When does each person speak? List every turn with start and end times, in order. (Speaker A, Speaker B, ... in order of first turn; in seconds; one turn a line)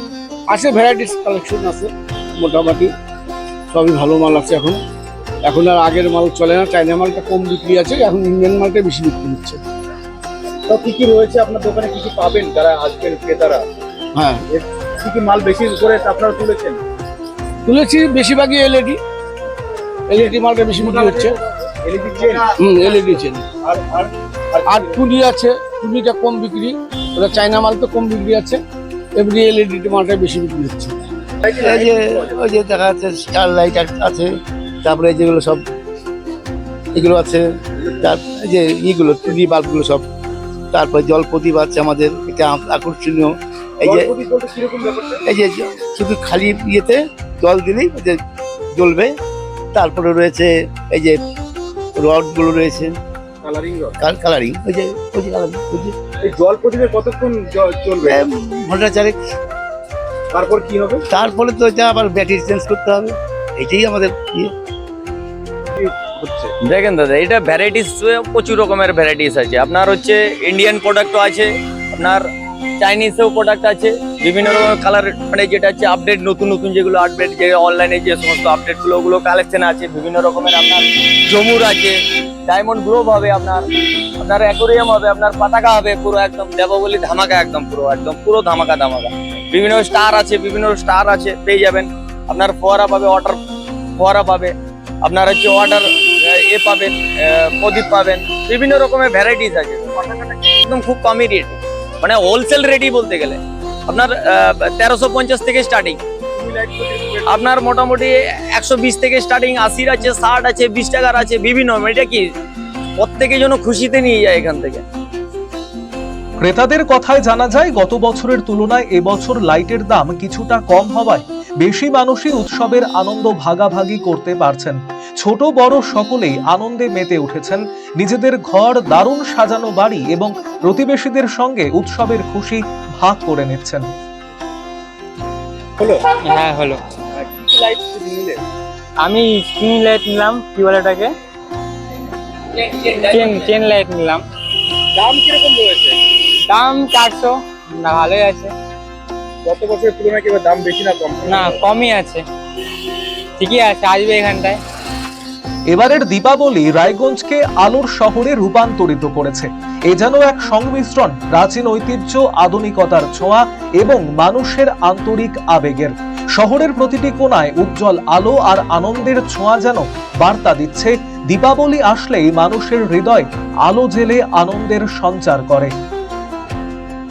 Speaker A: 0.5-2.9
Speaker A: 3.7-4.8
Speaker A: 5.5-9.6
Speaker B: 10.7-13.6
Speaker A: 14.2-14.4
Speaker B: 14.5-16.8
Speaker A: 17.6-19.0
Speaker A: 20.1-21.4
Speaker B: 20.8-22.5
Speaker A: 22.6-23.5
Speaker B: 23.6-25.0
Speaker A: 24.6-28.6
Speaker A: 29.1-31.0
Speaker B: 31.4-32.4
Speaker C: 31.6-34.3
Speaker C: 34.8-35.6
Speaker C: 36.9-40.0
Speaker C: 40.7-44.1
Speaker B: 43.8-45.2
Speaker C: 45.2-48.2
Speaker C: 48.7-49.1
Speaker C: 49.7-51.2
Speaker C: 52.0-53.0
Speaker B: 53.4-54.0
Speaker C: 54.0-55.9
Speaker B: 56.2-58.2
Speaker C: 58.0-59.2
Speaker B: 60.3-61.0
Speaker C: 61.1-64.5
Speaker B: 65.7-66.5
Speaker D: 66.6-72.2
Speaker D: 72.8-82.0
Speaker D: 82.5-83.6
Speaker D: 84.2-93.4
Speaker D: 94.0-94.5
Speaker D: 95.0-106.0
Speaker B: 106.3-107.4
Speaker D: 107.3-112.2
Speaker D: 113.0-114.8
Speaker E: 116.4-133.9
Speaker F: 136.2-136.8
Speaker B: 137.1-138.4
Speaker F: 139.0-141.1
Speaker F: 142.5-144.2
Speaker B: 144.9-146.2
Speaker F: 146.4-148.5
Speaker B: 149.4-151.6
Speaker F: 151.2-152.2
Speaker F: 153.4-154.6
Speaker E: 155.7-175.7